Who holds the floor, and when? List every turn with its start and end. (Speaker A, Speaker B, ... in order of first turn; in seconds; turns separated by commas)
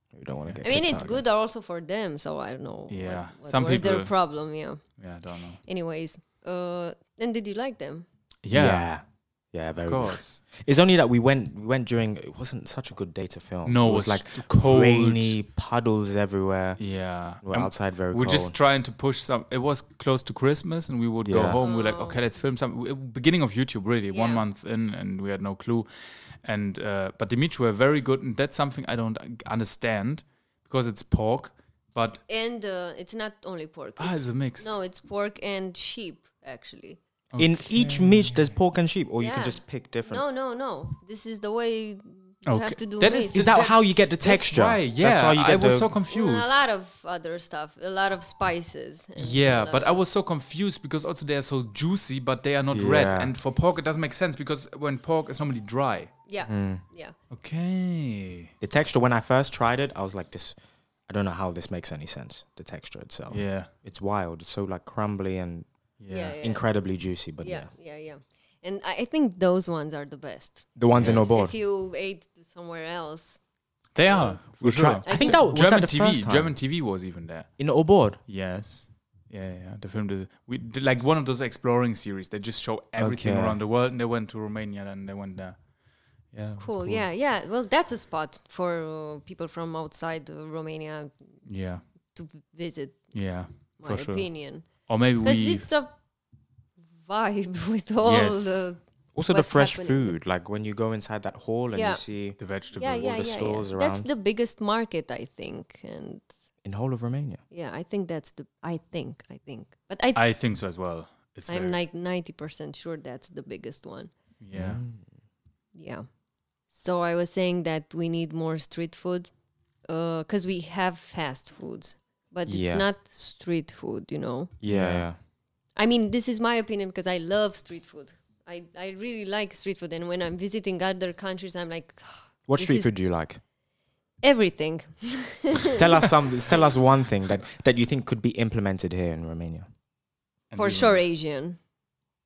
Speaker A: 0.1-1.2, Speaker B: 0.6-4.8, Speaker C: 2.9-4.1, Speaker C: 5.0-5.6, Speaker B: 5.6-8.1, Speaker C: 8.4-8.9, Speaker A: 8.5-18.5, Speaker C: 9.8-10.4, Speaker C: 13.6-15.3, Speaker C: 16.8-25.9, Speaker A: 21.2-21.6, Speaker B: 21.6-22.2, Speaker B: 24.1-24.4, Speaker C: 26.4-32.2, Speaker B: 32.3-37.0, Speaker C: 34.0-34.7, Speaker C: 37.3-38.5, Speaker A: 37.4-40.2, Speaker B: 39.2-43.5, Speaker C: 42.5-46.5, Speaker A: 43.3-45.9, Speaker B: 46.1-50.0, Speaker C: 49.2-56.1, Speaker A: 52.7-53.3, Speaker B: 56.3-57.1, Speaker A: 56.5-56.8, Speaker C: 57.3-58.5, Speaker A: 58.6-60.5, Speaker A: 61.1-65.7, Speaker C: 63.3-63.7, Speaker C: 66.0-66.3, Speaker B: 66.1-66.6, Speaker A: 66.4-67.7, Speaker B: 67.4-73.4, Speaker A: 70.8-71.5, Speaker C: 70.9-71.2, Speaker C: 73.9-77.5, Speaker B: 74.1-74.4, Speaker A: 74.6-76.5, Speaker B: 75.0-75.5, Speaker A: 77.6-78.2, Speaker C: 78.3-85.6, Speaker A: 83.0-83.6, Speaker C: 86.3-87.0, Speaker B: 86.6-91.1, Speaker C: 91.5-91.8, Speaker B: 92.1-93.1, Speaker C: 93.1-95.7, Speaker B: 93.8-95.9, Speaker B: 97.0-98.8, Speaker C: 98.0-98.7, Speaker A: 99.1-104.1, Speaker B: 99.3-100.1, Speaker B: 101.7-102.0, Speaker C: 102.4-103.2, Speaker B: 102.7-106.3, Speaker A: 106.6-107.4, Speaker B: 107.5-110.2, Speaker C: 110.1-111.8, Speaker B: 111.5-114.1, Speaker C: 114.4-114.8, Speaker A: 114.5-115.0, Speaker B: 115.7-116.1, Speaker B: 116.7-119.3, Speaker B: 119.9-124.5, Speaker A: 122.5-122.8, Speaker A: 124.6-125.2, Speaker C: 124.6-125.1, Speaker B: 125.8-132.9, Speaker A: 132.5-133.4, Speaker B: 134.2-135.8, Speaker A: 135.7-139.7, Speaker C: 140.5-141.0, Speaker B: 140.6-141.6